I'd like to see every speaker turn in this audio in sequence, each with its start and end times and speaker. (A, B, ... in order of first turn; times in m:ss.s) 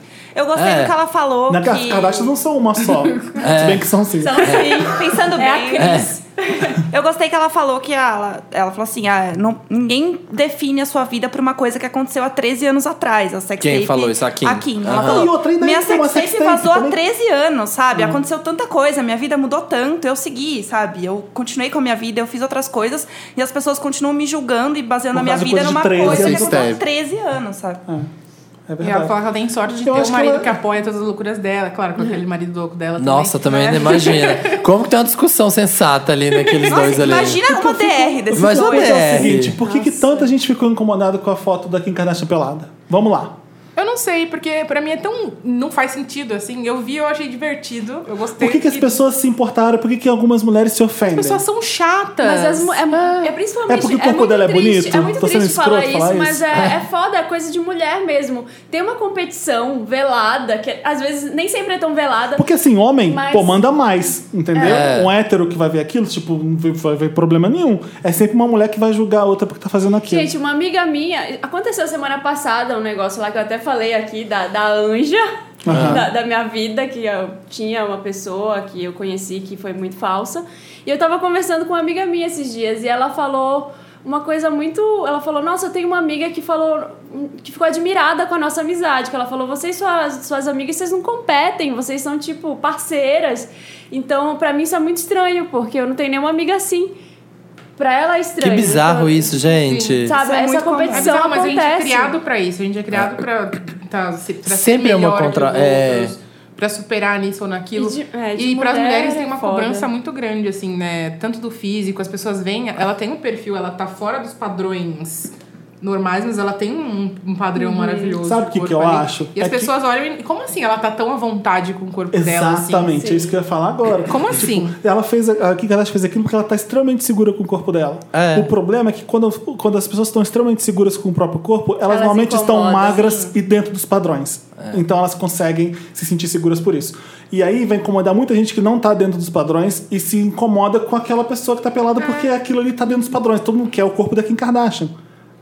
0:00.4-0:02.4 A
0:00.6-0:00.9 B
0:01.5-0:04.8 C
0:03.4-0:03.9 B
0:04.2-0:06.8 D
0:04.4-0:04.9 B
0:04.8-0:06.1 A
0:05.8-0:06.1 B
0:06.9-0:27.8 A
0:13.6-0:15.3 B
0:14.9-0:17.0 C
0:17.9-0:18.2 C
0:25.1-0:26.8 C
0:26.0-0:26.8 B
0:28.7-0:29.2 C
0:28.8-0:34.6 E
0:29.8-0:30.6 C
0:33.0-0:37.4 B
0:36.4-0:37.1 E
0:36.7-0:39.4 A
0:37.3-0:43.4 C
0:38.3-0:39.6 B
0:39.6-0:40.3 D
0:43.8-0:49.0 E
0:48.4-0:51.4 C
0:51.1-0:52.8 E
0:52.2-1:02.5 D
0:53.7-0:56.4 C
1:02.4-1:10.3 C
1:03.1-1:03.6 D
1:04.6-1:04.9 D
1:04.6-1:05.1 B
1:10.1-1:37.0 D
1:15.6-1:16.1 C
1:15.7-1:16.0 B
1:37.8-1:39.3 D
1:38.4-1:40.2 B
1:39.5-1:40.1 E
1:40.0-1:42.2 D
1:40.1-1:41.1 A
1:40.9-2:03.1 E
1:42.9-1:43.2 B
1:44.5-1:46.1 B
1:47.8-1:49.9 D
1:57.6-1:58.2 D
1:58.2-1:59.7 C
2:02.1-2:24.9 C
2:03.0-2:03.3 D
2:04.1-2:04.8 E
2:08.1-2:08.5 B
2:11.9-2:13.4 D